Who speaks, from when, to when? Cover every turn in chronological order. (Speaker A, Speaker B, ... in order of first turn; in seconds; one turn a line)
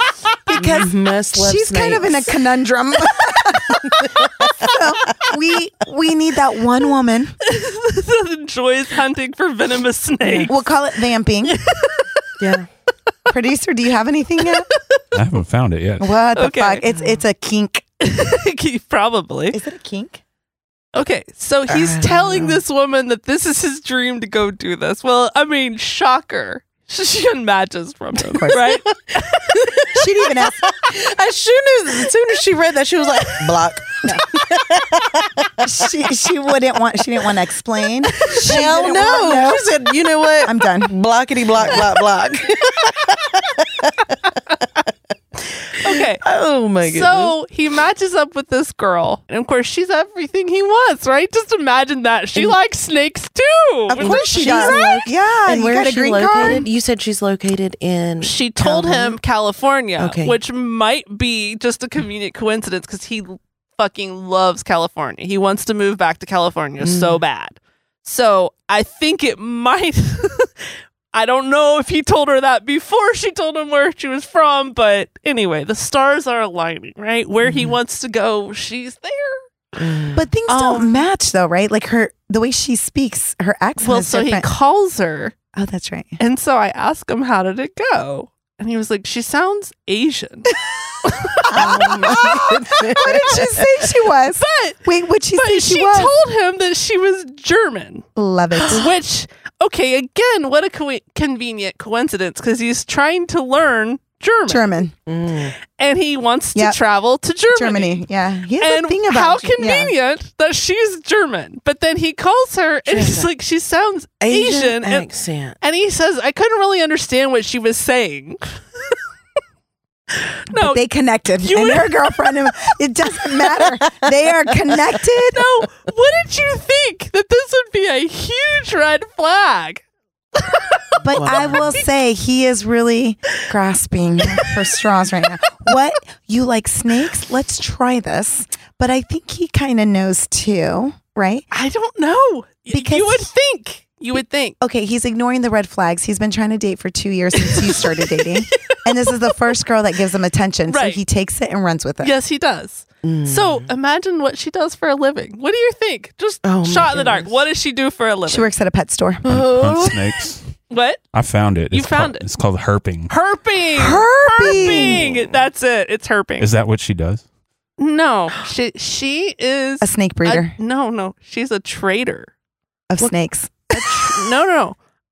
Speaker A: 0.5-7.3
Speaker B: 0.5-2.4
Speaker B: 3.7-4.7
Speaker C: 7.4-10.6
Speaker B: 10.2-10.5
Speaker A: 10.5-11.6
Speaker C: 11.4-12.2
Speaker B: 12.4-12.7
Speaker A: 13.3-14.7
Speaker C: 14.7-15.0
Speaker D: 15.1-16.1
Speaker A: 16.0-17.8
Speaker C: 16.4-16.8
Speaker B: 16.9-17.2
Speaker C: 18.0-19.6
Speaker A: 19.5-20.2
Speaker C: 20.9-29.9
Speaker B: 21.7-22.6
Speaker A: 28.3-28.6
Speaker B: 29.5-35.5
Speaker A: 29.9-30.7
Speaker A: 35.6-39.7
Speaker B: 38.4-44.9
Speaker A: 40.4-41.0
Speaker C: 45.8-46.2
Speaker B: 45.9-47.3
Speaker C: 46.9-55.1
Speaker A: 53.9-56.7
Speaker B: 54.0-59.2
Speaker C: 58.2-79.4
Speaker B: 60.0-60.4
Speaker B: 66.8-67.2
Speaker B: 77.4-77.7
Speaker B: 79.8-80.3
Speaker A: 80.1-84.5
Speaker C: 80.5-81.1
Speaker C: 83.8-85.3
Speaker A: 85.5-86.2
Speaker C: 86.2-92.3
Speaker A: 91.5-96.1
Speaker B: 91.5-93.8
Speaker C: 94.4-94.8
Speaker C: 95.3-98.0
Speaker A: 98.2-98.9
Speaker C: 98.7-104.8
Speaker A: 104.5-104.9
Speaker B: 105.0-105.5
Speaker C: 105.6-108.0
Speaker A: 107.5-109.9
Speaker C: 108.6-115.1
Speaker B: 112.9-113.3
Speaker B: 114.2-115.6
Speaker C: 115.6-119.0
Speaker C: 120.1-120.8
Speaker A: 120.5-125.4
Speaker C: 121.4-122.1
Speaker C: 125.3-129.8
Speaker C: 130.4-130.9
Speaker A: 131.0-141.4
Speaker B: 131.1-131.6
Speaker C: 141.5-144.6
Speaker A: 142.7-143.3
Speaker A: 144.6-152.1
Speaker C: 147.4-149.1
Speaker C: 150.7-151.0
Speaker C: 152.0-158.5
Speaker B: 153.0-153.7
Speaker B: 156.4-157.3
Speaker A: 158.3-159.2
Speaker B: 159.2-160.1
Speaker D: 159.3-160.4
Speaker C: 160.7-161.0
Speaker D: 161.1-163.1
Speaker C: 161.7-162.2
Speaker C: 163.1-166.5
Speaker A: 163.8-165.0
Speaker B: 164.7-165.2
Speaker D: 166.4-167.2
Speaker C: 167.8-172.3
Speaker A: 169.8-170.5
Speaker A: 172.9-174.0
Speaker C: 173.7-174.8